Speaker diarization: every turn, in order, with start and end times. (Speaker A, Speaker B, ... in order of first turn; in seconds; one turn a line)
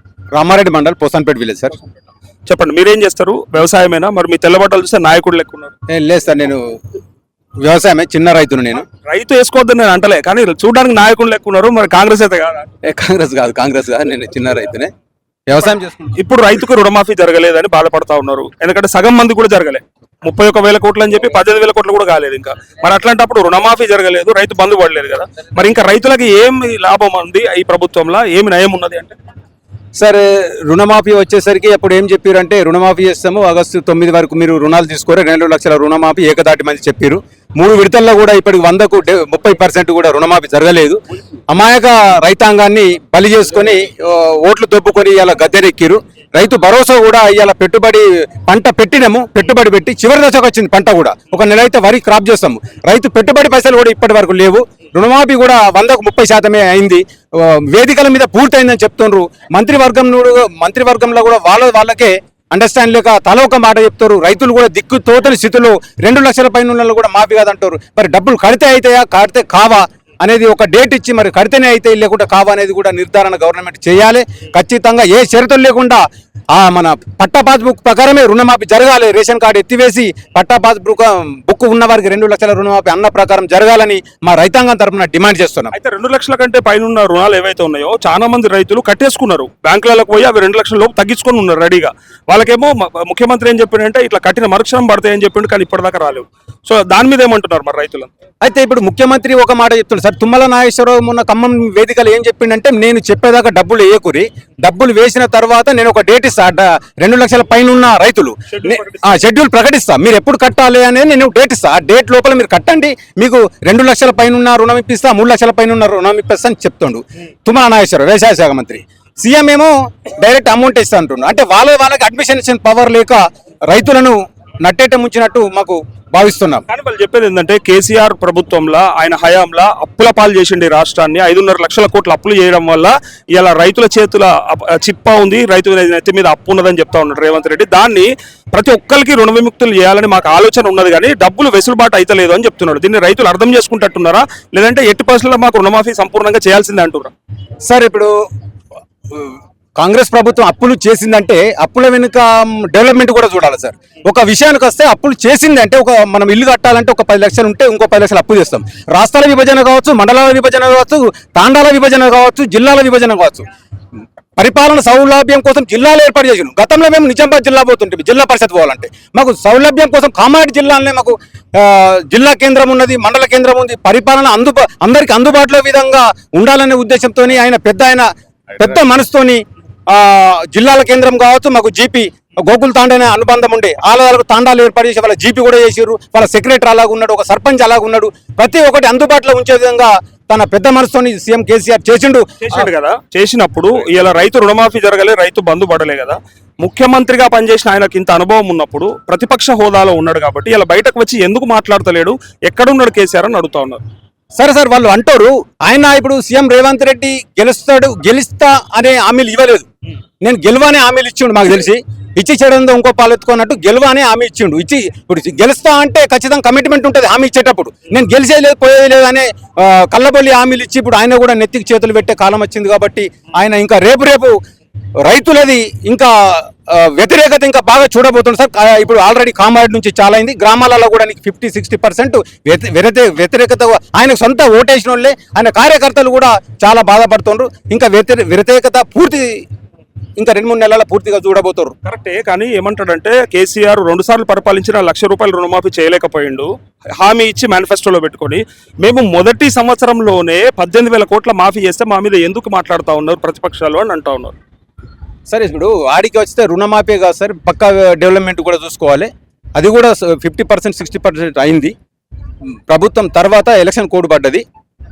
Speaker A: 0.3-1.8
Speaker B: 2.5-5.7
Speaker A: 5.9-6.6
Speaker A: 7.6-8.8
Speaker B: 9.1-12.7
Speaker A: 12.8-14.9
Speaker A: 15.5-16.1
Speaker B: 16.2-29.2
Speaker A: 30.0-41.0
Speaker A: 41.5-85.7
Speaker B: 85.7-98.1
Speaker A: 98.4-126.6
Speaker B: 108.5-109.1
Speaker B: 126.7-147.1
Speaker A: 147.7-148.1
Speaker A: 149.1-163.4
Speaker A: 164.4-192.7
Speaker B: 192.4-203.8
Speaker A: 204.4-209.7
Speaker A: 210.2-224.4
Speaker A: 225.1-239.4
Speaker A: 240.2-241.7
Speaker B: 241.9-254.4
Speaker A: 255.3-261.7
Speaker A: 262.7-264.4